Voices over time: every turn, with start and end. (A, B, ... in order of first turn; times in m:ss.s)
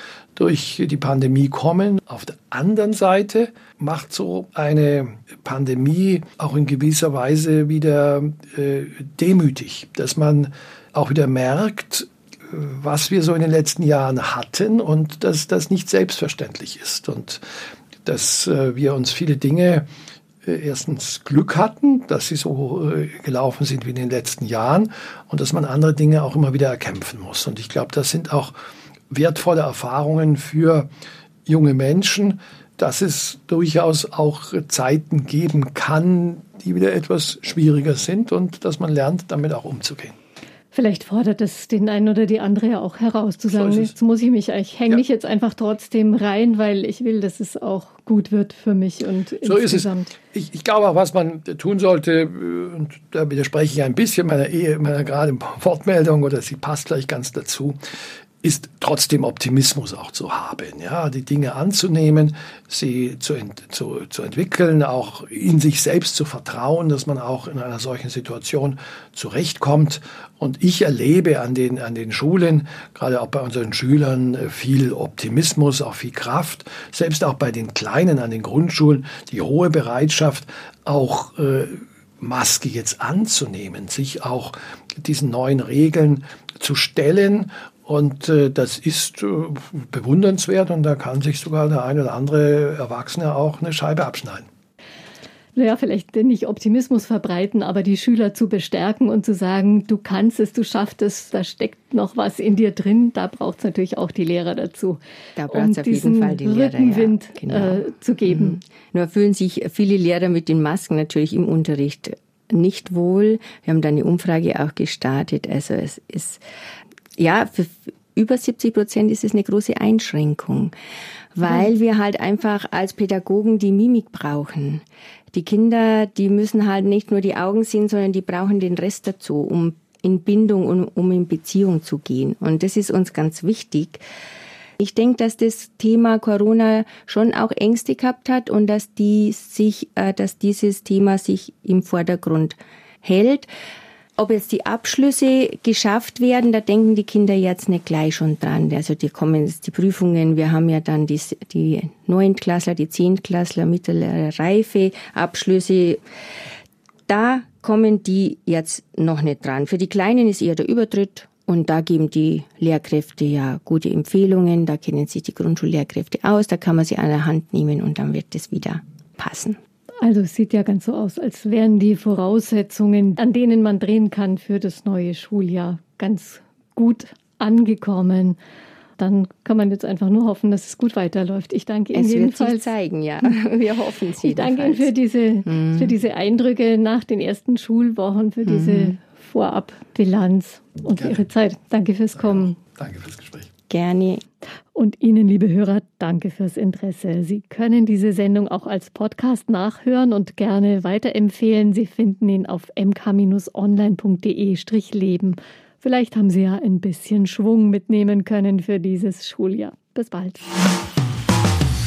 0:00.4-0:17.4 A
0:18.0-0:19.9 A
0:20.4-0:28.5 A
0:29.1-0:30.9 A
0:31.4-0:40.2 A
0:40.7-0:50.1 B
0:43.5-0:43.9 A
0:49.4-0:57.8 A
0:58.4-1:34.5 A
1:35.6-1:48.6 B
1:45.4-1:56.4 C
1:57.2-2:00.7 C
2:01.3-2:14.0 C
2:14.8-2:23.5 C
2:24.2-2:36.0 C
2:37.1-2:49.6 C
2:50.0-2:58.4 B
2:59.0-3:02.7 B
3:01.9-3:04.9 C
3:04.2-3:12.6 B
3:05.4-3:05.9 C
3:08.4-3:08.9 C
3:10.9-3:11.2 A
3:12.2-3:13.5 A
3:13.7-3:14.2 C
3:14.7-3:30.5 B